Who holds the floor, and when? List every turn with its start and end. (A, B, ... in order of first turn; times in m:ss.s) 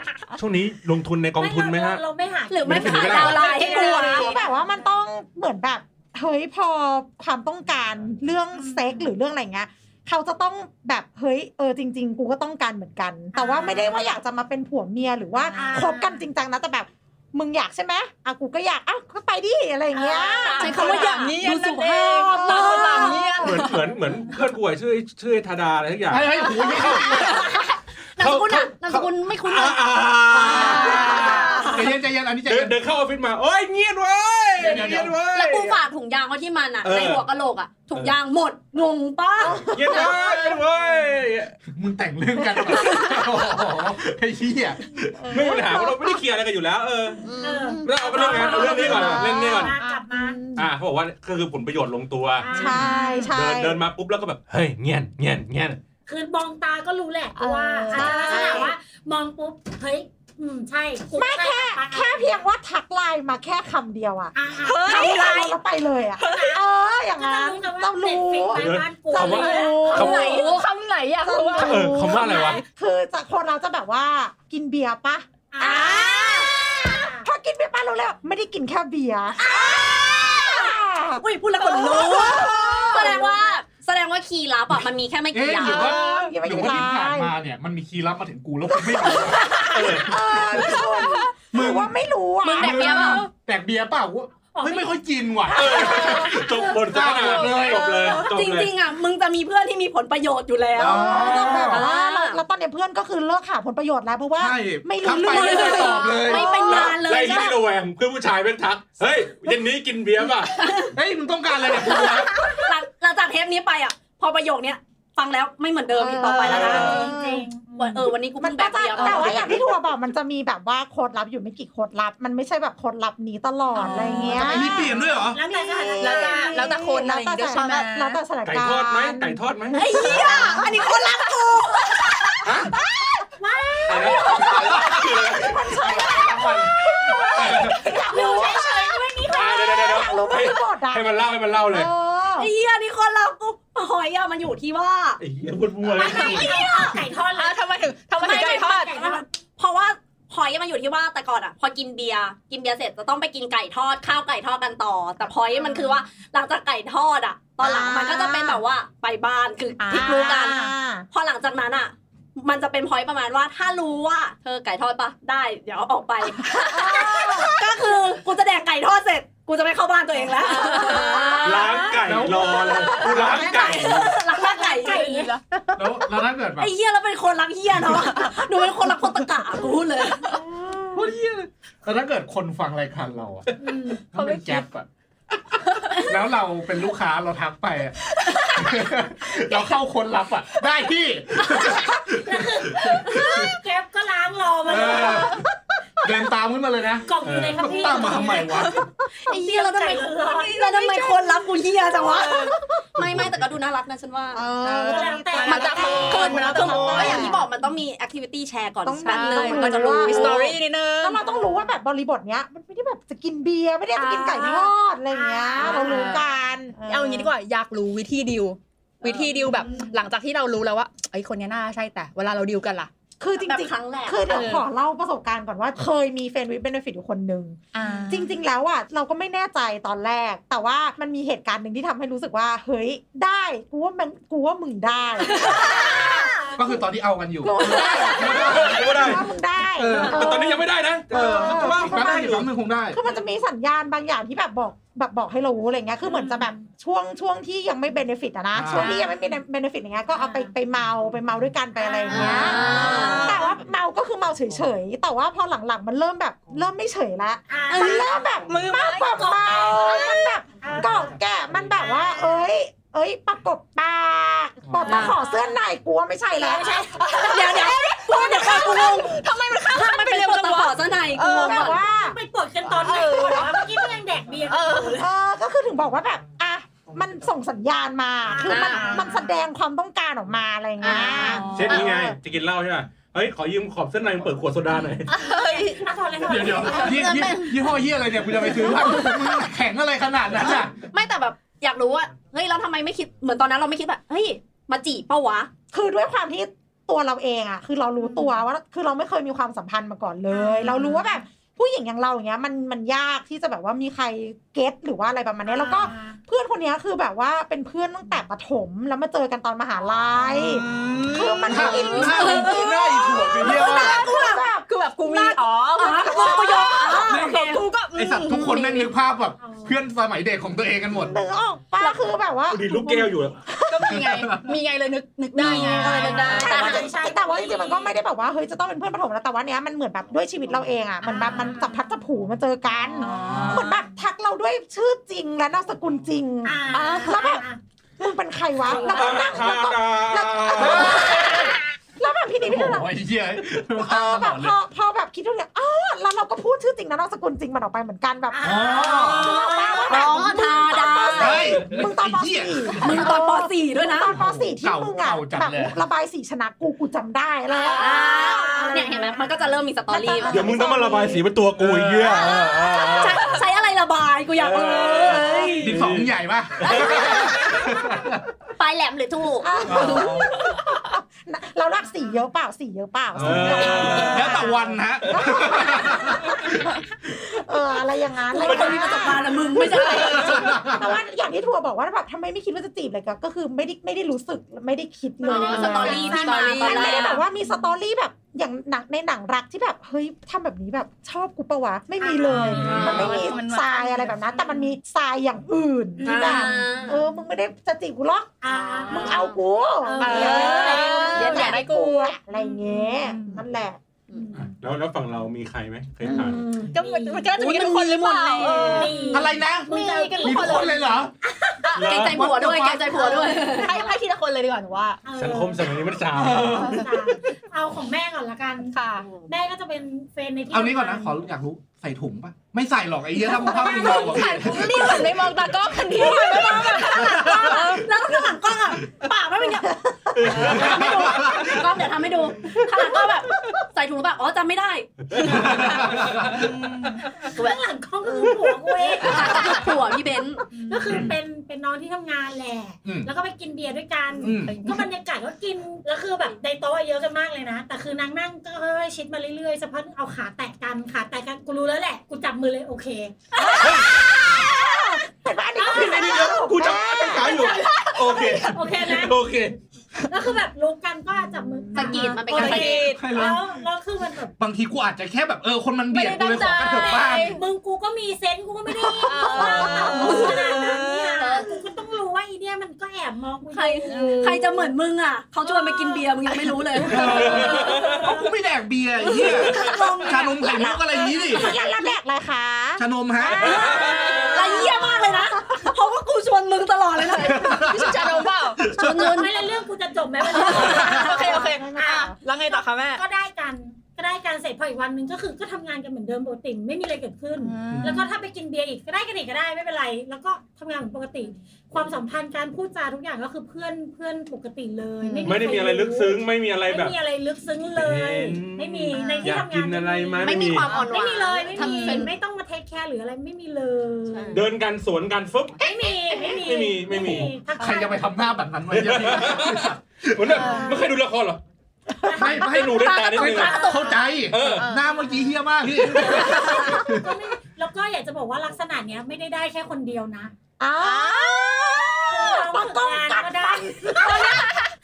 0:00.3-0:02.0 A
0:01.4-0:04.9 B
0:02.5-0:04.3 C
0:02.6-0:03.5 A
0:03.4-0:23.6 D
0:08.5-0:09.1 B
0:13.3-0:14.1 B
0:15.5-0:16.2 B
0:19.9-0:20.7 B
0:20.3-0:21.4 C
0:20.4-0:23.8 E
0:22.6-0:23.0 B
0:23.4-0:27.0 A
0:26.1-0:27.5 F
0:26.8-0:31.8 C
0:28.2-0:31.6 A
0:30.4-0:31.9 E
0:30.4-0:32.8 F
0:32.4-0:35.8 A
0:34.6-0:35.2 F
0:34.6-0:34.9 B
0:35.3-0:39.7 C
0:36.8-0:37.2 A
0:39.4-0:40.4 D
0:39.6-0:41.6 A
0:41.7-0:45.5 F
0:42.5-0:43.1 D
0:45.2-0:46.2 D
0:45.3-0:47.3 A
0:47.2-0:48.9 C
0:47.4-0:50.4 B
0:47.8-0:49.7 A
0:48.1-0:50.7 D
0:50.6-0:52.5 A
0:52.4-0:53.2 B
0:52.5-0:53.3 E
0:52.5-0:53.8 D
0:53.3-0:55.8 A
0:56.1-1:02.4 B
0:57.3-0:58.7 E
0:57.9-0:58.7 D
1:01.1-1:10.5 D
1:04.3-1:05.4 B
1:04.6-1:05.6 E
1:06.2-1:06.6 E
1:06.2-1:06.6 B
1:07.1-1:10.4 B
1:08.6-1:10.3 A
1:09.2-1:12.6 E
1:09.8-1:10.6 C
1:11.2-1:23.4 D
1:11.6-1:12.6 A
1:15.5-1:16.3 B
1:15.6-1:16.5 C
1:16.8-1:17.2 B
1:19.4-1:26.0 C
1:25.3-1:31.9 F
1:25.6-1:27.3 D
1:28.7-1:33.2 D
1:29.6-1:30.2 A
1:32.4-1:33.3 C
1:32.5-1:38.0 F
1:34.5-1:35.0 B
1:35.5-1:36.5 D
1:35.5-1:38.7 A
1:35.7-1:36.8 B
1:37.2-1:38.2 E
1:38.0-1:42.4 C
1:40.8-1:41.8 F
1:40.8-1:46.7 D
1:44.4-1:46.6 F
1:45.2-1:47.6 C
1:46.6-1:50.5 A
1:50.5-1:50.9 C
1:50.9-1:52.5 F
1:51.6-1:57.0 C
1:56.0-1:57.5 D
1:56.5-1:57.0 F
1:56.7-1:57.2 E
1:56.7-1:58.1 B
1:57.8-1:59.6 C
1:58.4-2:10.8 D
1:59.0-1:59.5 E
1:59.2-1:59.6 F
2:03.7-2:04.9 E
2:04.3-2:05.4 F
2:05.3-2:06.8 B
2:06.0-2:08.2 E
2:08.4-2:09.8 A
2:09.7-2:12.4 E
2:09.9-2:11.0 C
2:12.4-2:12.7 A
2:13.4-2:14.4 B
2:13.7-2:22.5 D
2:13.9-2:15.6 A
2:14.5-2:17.9 F
2:17.4-2:17.7 A
2:17.9-2:19.6 B
2:18.4-2:18.7 E
2:19.3-2:21.9 A
2:22.4-2:25.2 C
2:25.2-2:26.5 A
2:25.9-2:27.6 B
2:26.0-2:27.0 C
2:26.1-2:26.5 E
2:27.3-2:29.1 E
2:28.2-2:29.2 B
2:28.2-2:52.0 C
2:37.6-2:38.6 D
2:39.8-2:40.5 E
2:39.9-2:41.0 D
2:46.5-2:47.4 E
2:46.7-2:47.5 D
2:50.4-2:52.0 E
2:50.8-2:51.4 D
2:51.4-2:54.1 A
2:52.0-2:54.0 F
2:52.5-2:53.5 E
2:53.2-2:55.1 C
2:54.3-2:55.4 E
2:54.4-2:55.3 B
2:55.8-2:56.7 F
2:56.6-3:00.3 C
3:00.3-3:01.1 D
3:00.9-3:01.5 E
3:01.8-3:03.5 F
3:03.6-3:04.0 B
3:04.1-3:04.8 F
3:04.1-3:04.7 E
3:06.0-3:13.6 F
3:08.2-3:08.6 E
3:12.2-3:15.4 B
3:14.7-3:15.5 F
3:16.0-3:18.8 F
3:17.0-3:18.6 B
3:17.2-3:17.8 A
3:18.4-3:18.8 E
3:19.3-3:20.6 B
3:19.3-3:30.6 C
3:20.5-3:21.4 E
3:22.0-3:22.6 E
3:23.0-3:23.4 A
3:24.3-3:27.4 D
3:24.9-3:27.3 B
3:24.9-3:27.4 E
3:28.8-3:37.3 D
3:29.0-3:31.2 E
3:34.0-3:34.7 E
3:35.1-3:36.1 B
3:35.5-3:36.2 E
3:36.8-3:42.9 E
3:43.2-3:56.8 D
3:43.4-3:44.5 C
3:44.3-3:44.6 E
3:47.7-3:48.4 E
3:55.3-3:55.8 E
3:55.7-3:59.2 F
3:55.9-3:56.6 B
3:57.4-4:02.4 D
3:58.2-3:59.2 A
3:59.7-4:00.6 F
4:00.0-4:02.5 A
4:01.1-4:03.0 F
4:02.9-4:28.7 D
4:06.1-4:06.4 B
4:08.5-4:09.0 F
4:08.7-4:09.1 B
4:10.1-4:10.5 B
4:11.8-4:13.2 B
4:12.1-4:13.5 E
4:12.1-4:13.4 C
4:17.5-4:18.3 B
4:17.7-4:20.4 E
4:19.1-4:19.9 B
4:20.4-4:21.2 B
4:21.7-4:22.3 B
4:24.7-4:25.0 F
4:24.8-4:25.6 B
4:24.8-4:25.2 C
4:26.4-4:26.9 B
4:26.9-4:31.8 E
4:27.2-4:31.8 C
4:31.2-4:32.2 D
4:32.0-4:35.0 B
4:32.7-4:35.1 E
4:34.9-4:42.2 D
4:38.3-4:39.3 B
4:38.4-4:39.0 C
4:38.5-4:39.1 E
4:40.8-4:41.5 C
4:40.9-4:41.9 E
4:41.5-4:45.2 A
4:45.1-4:45.9 E
4:45.8-4:47.3 B
4:46.2-4:50.7 F
4:46.7-4:47.5 C
4:48.8-4:49.1 C
4:48.9-4:49.1 E
4:50.4-4:55.5 C
4:55.7-5:15.4 D
5:00.3-5:01.1 B
5:00.6-5:01.0 E
5:05.4-5:06.2 B
5:10.3-5:18.9 E
5:11.5-5:14.0 F
5:11.9-5:12.6 C
5:13.8-5:14.4 C
5:15.8-5:17.7 C
5:16.0-5:17.1 D
5:17.1-5:17.4 F
5:17.9-5:21.2 F
5:18.4-5:18.9 C
5:19.4-5:19.7 B
5:20.9-5:24.0 D
5:22.5-5:23.4 A
5:23.6-5:26.9 E
5:24.0-5:24.5 F
5:25.4-5:37.4 D
5:25.4-5:25.8 F
5:25.7-5:26.9 C
5:26.0-5:27.9 B
5:31.0-5:31.8 B
5:33.0-5:33.9 E
5:36.4-5:37.6 B
5:36.7-5:37.2 E
5:38.0-5:42.9 D
5:38.9-5:41.2 A
5:40.5-5:41.5 F
5:42.4-5:44.5 F
5:43.8-5:59.4 D
5:48.3-5:50.4 B
5:48.4-5:49.3 F
5:49.2-5:51.6 C
5:51.1-5:53.1 F
5:52.8-5:54.1 C
5:54.0-5:55.7 F
5:57.6-6:00.6 C
5:58.5-5:58.9 B
5:59.9-6:01.2 D
6:00.3-6:03.4 A
6:01.6-6:02.2 F
6:02.1-6:05.7 C
6:04.4-6:07.0 A
6:05.0-6:05.6 E
6:05.6-6:08.2 F
6:06.6-6:07.7 C
6:07.0-6:07.3 D
6:08.6-6:10.4 C
6:09.4-6:43.8 D
6:09.6-6:10.3 F
6:13.2-6:16.8 F
6:13.2-6:14.4 A
6:15.6-6:16.8 B
6:18.3-6:20.7 C
6:18.4-6:18.8 A
6:18.5-6:20.4 E
6:19.8-6:20.9 F
6:25.2-6:27.2 C
6:25.3-6:25.6 B
6:25.3-6:27.6 E
6:32.0-6:32.8 B
6:32.2-6:34.2 E
6:32.4-6:33.1 F
6:32.5-6:33.0 A
6:36.0-6:37.0 C
6:38.4-6:39.3 B
6:38.6-6:39.4 C
6:39.8-6:41.2 B
6:40.0-6:42.2 E
6:41.1-6:41.6 C
6:42.4-6:43.0 B
6:43.0-6:43.4 E
6:44.2-6:44.4 B
6:44.3-6:46.4 A
6:46.0-6:46.7 D
6:46.4-6:47.3 B
6:46.7-6:51.0 E
6:47.3-6:49.0 C
6:48.4-6:51.7 B
6:49.1-6:51.1 F
6:51.6-6:51.9 E
6:51.7-6:52.3 A
6:51.7-6:53.9 C
6:51.9-6:53.4 F
6:52.9-6:55.0 E
6:55.0-6:58.7 B
6:55.2-6:56.9 A
6:56.2-6:56.6 F
6:56.5-6:56.9 E
6:58.7-6:59.1 E
6:59.2-7:01.1 B
7:00.5-7:05.3 F
7:03.2-7:07.9 E
7:03.5-7:04.2 B
7:05.9-7:15.9 C
7:06.3-7:07.8 F
7:10.1-7:11.1 A
7:10.2-7:11.7 F
7:15.2-7:15.5 E
7:15.2-7:16.5 F
7:16.3-7:17.1 E
7:17.2-7:19.8 B
7:19.0-7:20.5 C
7:20.5-7:33.8 B
7:20.9-7:21.1 F
7:22.8-7:23.1 F
7:24.2-7:24.8 F
7:24.3-7:24.8 E
7:33.4-7:37.5 D
7:35.6-7:36.3 B
7:35.6-7:39.6 A
7:37.2-7:38.6 E
7:38.1-7:39.2 B
7:40.1-7:44.3 B
7:41.7-7:42.9 C
7:41.8-7:43.2 E
7:42.3-7:43.6 F
7:44.4-7:47.4 F
7:45.9-7:47.4 E
7:47.4-7:54.2 B
7:48.8-7:51.6 E
7:49.4-7:50.2 D
7:51.2-7:51.5 C
7:53.5-7:57.8 C
7:53.8-7:54.7 E
7:55.6-7:57.1 E
7:56.9-7:58.4 B
7:56.9-8:01.6 F
7:57.1-7:58.0 A
7:59.0-8:01.5 C
7:59.6-8:00.2 E
8:00.4-8:05.3 D
8:02.8-8:03.8 F
8:03.3-8:08.0 C
8:03.4-8:04.4 A
8:03.4-8:04.4 B
8:03.8-8:04.9 E
8:07.0-8:09.2 F
8:07.6-8:08.7 E
8:08.6-8:09.4 C
8:08.9-8:34.4 B
8:10.3-8:13.0 E
8:10.3-8:11.5 C
8:10.8-8:11.1 F
8:10.9-8:12.2 D
8:17.4-8:18.1 E
8:17.7-8:18.0 F
8:25.0-8:25.4 E
8:25.2-8:27.0 A
8:27.7-8:30.8 A
8:28.9-8:29.4 E
8:30.2-8:32.1 C
8:31.6-8:32.1 E
8:34.1-8:34.4 C
8:34.3-8:35.6 A
8:35.6-8:38.1 B
8:36.4-8:37.3 A
8:37.6-8:40.5 F
8:38.7-8:41.4 A
8:40.3-8:40.8 E
8:42.0-8:42.6 B
8:42.1-8:42.4 D
8:42.1-8:47.1 F
8:42.3-8:43.7 A
8:42.5-8:43.9 C
8:43.2-8:43.9 B
8:43.5-8:44.0 E
8:44.3-8:44.7 A
8:44.5-8:45.4 E
8:45.7-8:46.3 A
8:46.1-8:50.3 B
8:46.3-8:46.8 C
8:50.6-8:54.4 D
8:50.8-8:51.6 E
8:52.0-8:54.5 B
8:54.0-8:54.7 E